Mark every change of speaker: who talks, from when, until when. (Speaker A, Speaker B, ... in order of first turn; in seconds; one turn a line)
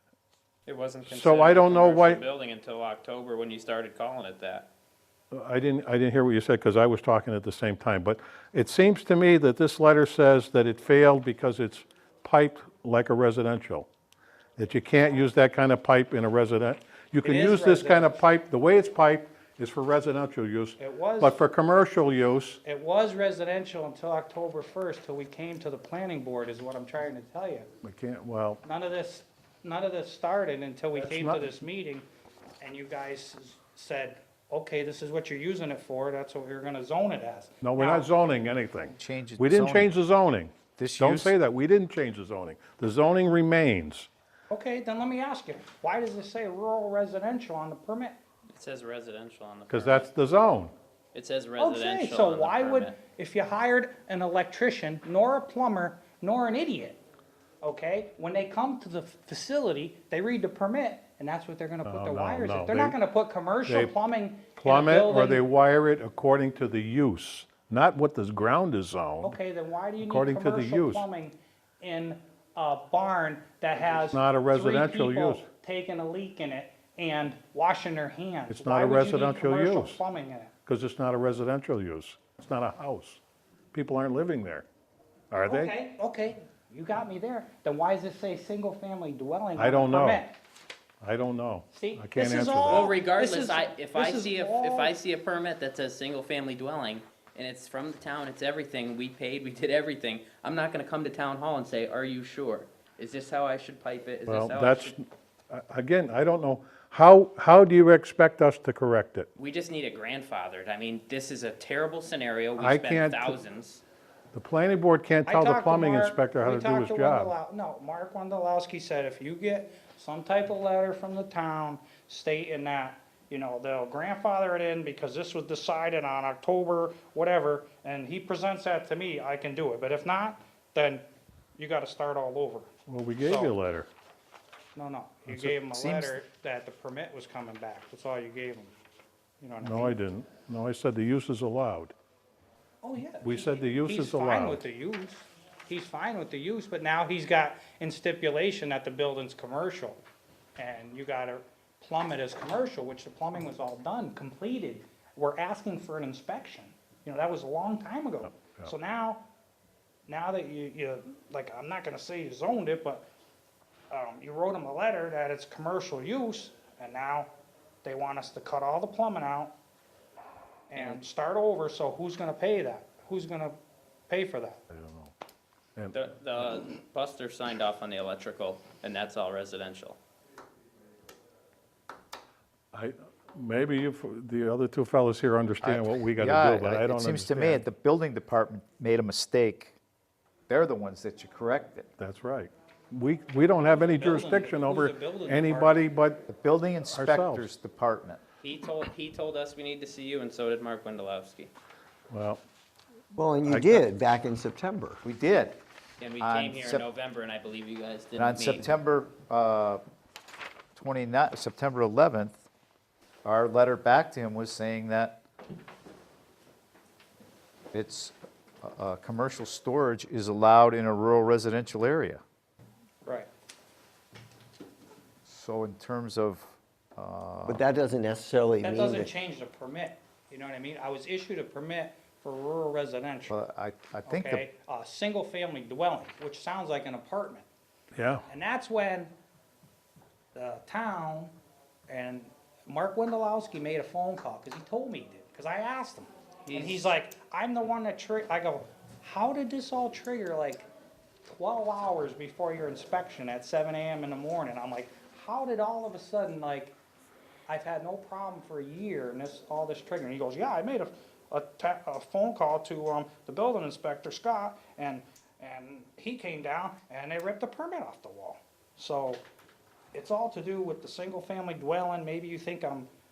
Speaker A: 0.7-4.7
Speaker B: 1.1-2.2
Speaker B: 5.3-13.9
Speaker B: 14.6-22.6
Speaker C: 17.2-18.3
Speaker C: 20.8-21.4
Speaker C: 22.6-27.7
Speaker B: 27.8-28.6
Speaker C: 28.6-32.0
Speaker B: 31.0-31.5
Speaker C: 32.6-38.1
Speaker B: 37.6-44.1
Speaker D: 39.0-39.9
Speaker D: 40.8-41.4
Speaker C: 44.5-48.2
Speaker A: 48.5-50.1
Speaker B: 49.7-50.7
Speaker A: 51.1-53.0
Speaker C: 51.6-57.0
Speaker C: 57.6-65.4
Speaker B: 61.9-63.0
Speaker B: 63.7-63.9
Speaker B: 64.5-69.4
Speaker C: 69.2-80.5
Speaker B: 70.0-71.1
Speaker B: 74.1-75.5
Speaker B: 78.5-80.0
Speaker B: 80.7-83.2
Speaker B: 83.7-84.7
Speaker B: 85.3-85.7
Speaker C: 85.5-90.4
Speaker B: 89.6-90.2
Speaker B: 91.0-92.9
Speaker C: 91.7-95.0
Speaker A: 92.7-104.9
Speaker B: 104.3-109.3
Speaker A: 109.4-113.8
Speaker B: 112.6-113.4
Speaker B: 114.3-117.3
Speaker C: 115.3-132.7
Speaker B: 132.9-133.9
Speaker C: 133.2-133.5
Speaker C: 134.8-138.7
Speaker B: 135.3-135.5
Speaker D: 135.7-136.2
Speaker C: 139.4-140.0
Speaker B: 139.6-141.9
Speaker C: 142.8-150.0
Speaker B: 143.2-144.6
Speaker C: 150.6-159.2
Speaker B: 158.3-158.7
Speaker C: 160.1-163.0
Speaker C: 163.9-167.3
Speaker C: 167.8-169.5
Speaker C: 170.7-173.6
Speaker C: 174.1-174.6
Speaker B: 174.7-175.1
Speaker A: 175.9-180.0
Speaker B: 182.7-187.6
Speaker D: 185.6-189.8
Speaker D: 190.5-191.9
Speaker B: 192.0-196.2
Speaker C: 193.8-195.8
Speaker D: 196.3-198.2
Speaker B: 196.9-197.5
Speaker A: 198.4-201.5
Speaker B: 202.1-202.4
Speaker E: 203.1-205.0
Speaker B: 203.5-203.9
Speaker D: 205.0-205.6
Speaker A: 206.0-208.7
Speaker D: 206.2-206.9
Speaker D: 208.2-209.8
Speaker D: 210.8-212.4
Speaker D: 213.2-215.2
Speaker D: 217.7-222.2
Speaker D: 225.3-227.6
Speaker E: 227.5-229.1
Speaker C: 228.6-233.4
Speaker D: 233.3-234.5
Speaker C: 234.1-237.5
Speaker B: 237.9-238.2
Speaker C: 238.3-239.1
Speaker C: 240.3-241.3
Speaker C: 241.9-250.7
Speaker A: 246.5-246.9
Speaker C: 251.2-256.8
Speaker C: 257.5-269.2
Speaker C: 269.9-272.9